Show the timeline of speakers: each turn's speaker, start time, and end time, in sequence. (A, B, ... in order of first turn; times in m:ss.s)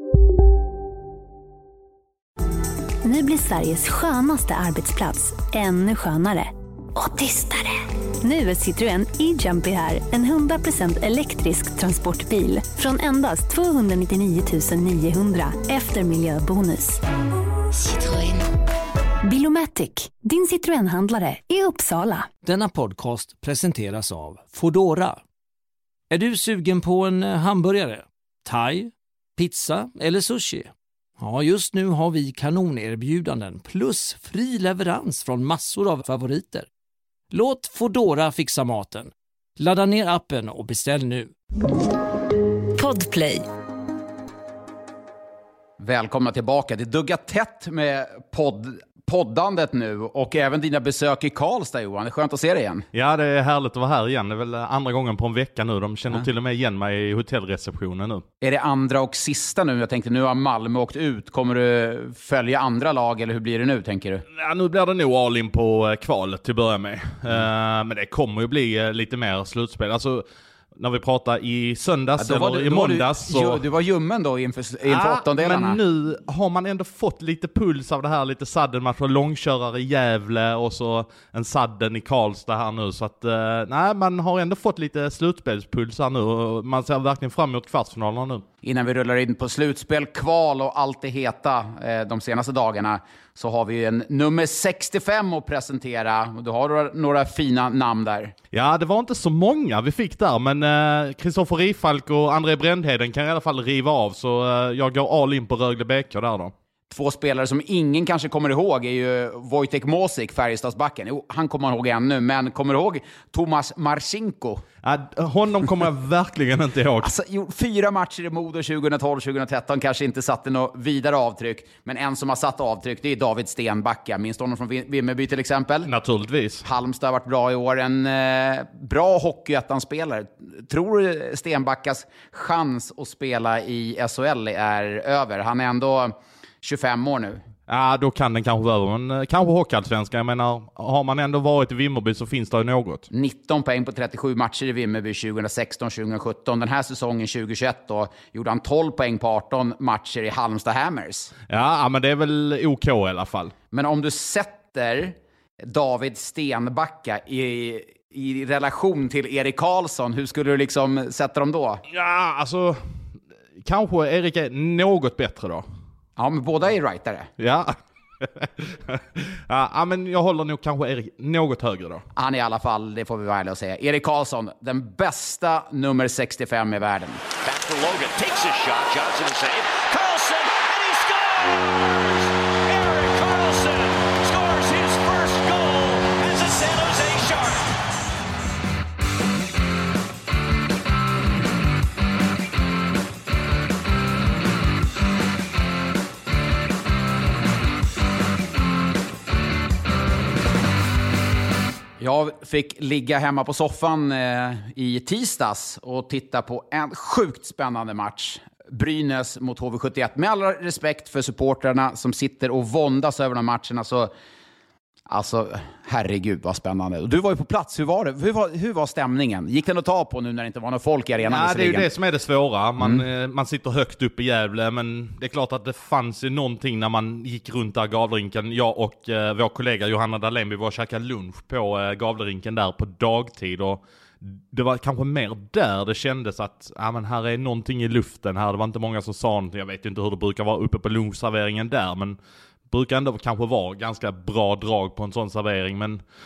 0:03.0-0:17.0 A
0:17.8-0:18.4 A
0:19.2-0:22.3 A
0:22.4-0:25.2 B
0:26.1-0:36.7 B
0:37.3-0:41.3 B
0:42.8-0:43.4 A
0:45.8-0:52.8 C
0:52.9-0:58.2 D
0:58.4-1:04.2 C
1:04.3-1:10.2 D
1:10.8-1:13.6 D
1:12.2-1:15.8 C
1:14.8-1:28.4 D
1:28.6-1:38.3 C
1:38.5-1:46.5 D
1:46.9-1:54.6 C
1:54.8-1:57.1 D
1:57.0-2:05.9 C
2:05.9-2:06.6 D
2:06.6-2:17.4 C
2:17.7-2:23.1 D
2:23.1-2:31.3 C
2:31.5-2:33.5 D
2:33.7-2:41.8 C
2:41.9-2:42.8 D
2:43.6-2:45.6 D
2:46.2-2:47.3 C
2:47.4-2:52.0 D
2:52.2-2:57.2 C
2:57.4-3:07.6 E
3:22.0-3:34.1 C
3:35.1-3:41.9 C
3:41.2-4:02.2 D
3:42.8-3:43.0 C
4:02.7-4:06.0 D